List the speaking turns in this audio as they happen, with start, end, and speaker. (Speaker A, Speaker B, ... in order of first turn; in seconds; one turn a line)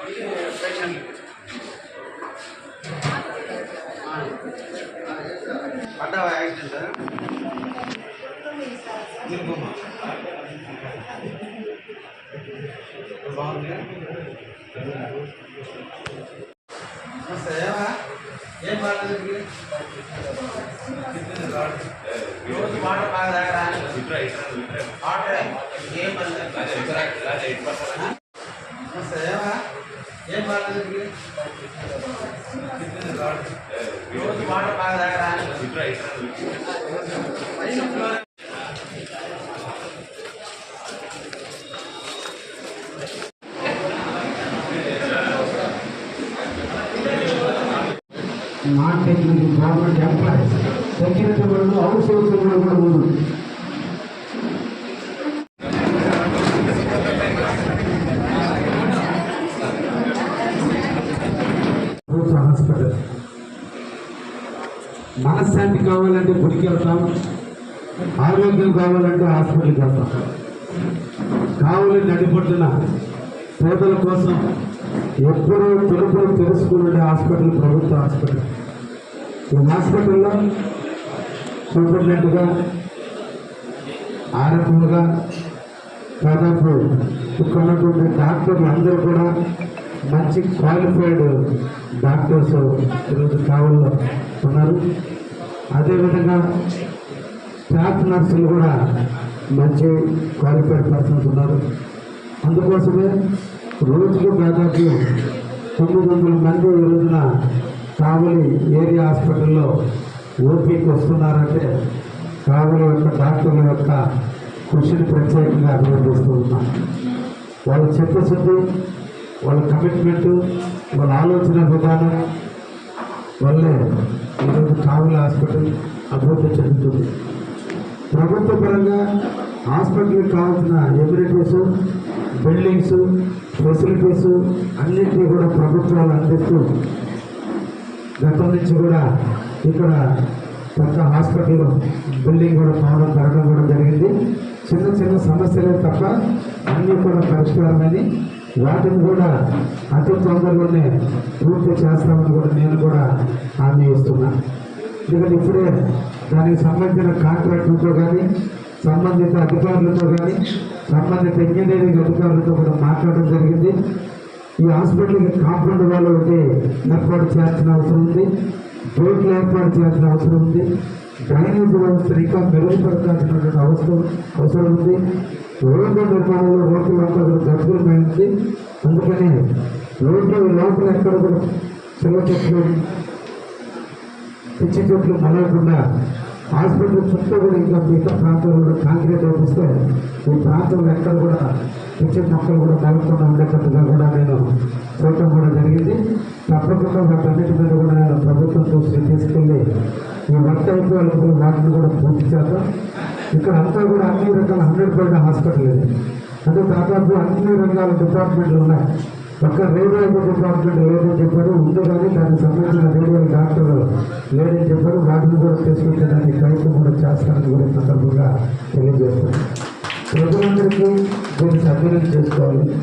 Speaker A: 0.3-1.1
Speaker A: 6.0-6.9
Speaker A: 9.2-9.8
Speaker A: 13.2-13.8
Speaker A: 17.2-17.9
Speaker A: 18.6-19.4
Speaker A: 20.9-21.8
Speaker B: 22.2-22.9
Speaker A: 22.4-23.9
Speaker B: 23.8-27.9
Speaker A: 25.0-26.6
Speaker A: 28.9-29.6
Speaker A: 30.3-31.1
Speaker B: 32.3-32.7
Speaker A: 32.7-33.4
Speaker B: 33.9-34.8
Speaker A: 34.1-35.6
Speaker B: 35.4-36.4
Speaker A: 48.7-53.1
Speaker A: 62.1-62.9
Speaker A: 65.2-67.0
Speaker A: 68.2-70.1
Speaker A: 71.6-72.7
Speaker A: 73.6-74.4
Speaker A: 75.2-78.4
Speaker A: 79.5-80.3
Speaker A: 81.7-82.5
Speaker A: 84.4-85.0
Speaker A: 86.2-86.8
Speaker A: 87.4-89.3
Speaker A: 90.1-91.3
Speaker A: 92.0-94.8
Speaker A: 95.7-96.4
Speaker A: 97.7-98.7
Speaker A: 99.5-101.6
Speaker A: 102.5-103.1
Speaker A: 103.8-105.0
Speaker A: 105.8-107.2
Speaker A: 108.0-109.7
Speaker A: 110.4-111.7
Speaker A: 112.4-114.0
Speaker A: 114.7-116.6
Speaker A: 117.7-118.6
Speaker A: 119.4-120.3
Speaker A: 120.9-122.1
Speaker A: 123.4-123.8
Speaker A: 124.4-127.1
Speaker A: 128.1-129.0
Speaker A: 129.7-131.6
Speaker A: 132.4-133.0
Speaker A: 133.6-136.6
Speaker A: 138.2-139.0
Speaker A: 139.6-140.0
Speaker A: 140.8-144.1
Speaker A: 144.7-146.1
Speaker A: 146.7-148.0
Speaker A: 148.6-149.3
Speaker A: 149.9-150.9
Speaker A: 151.4-153.0
Speaker A: 153.6-154.3
Speaker A: 155.1-155.7
Speaker A: 156.3-158.2
Speaker A: 158.8-160.3
Speaker A: 160.9-163.7
Speaker A: 164.6-168.3
Speaker A: 168.9-170.6
Speaker A: 171.3-175.0
Speaker A: 175.7-178.3
Speaker A: 178.8-179.3
Speaker A: 180.0-181.4
Speaker A: 182.0-182.7
Speaker A: 184.6-185.8
Speaker A: 186.6-189.7
Speaker A: 190.3-194.4
Speaker A: 195.0-196.0
Speaker A: 196.5-199.6
Speaker A: 200.3-202.6
Speaker A: 203.3-205.8
Speaker A: 206.4-208.8
Speaker A: 209.4-219.4
Speaker A: 220.1-222.7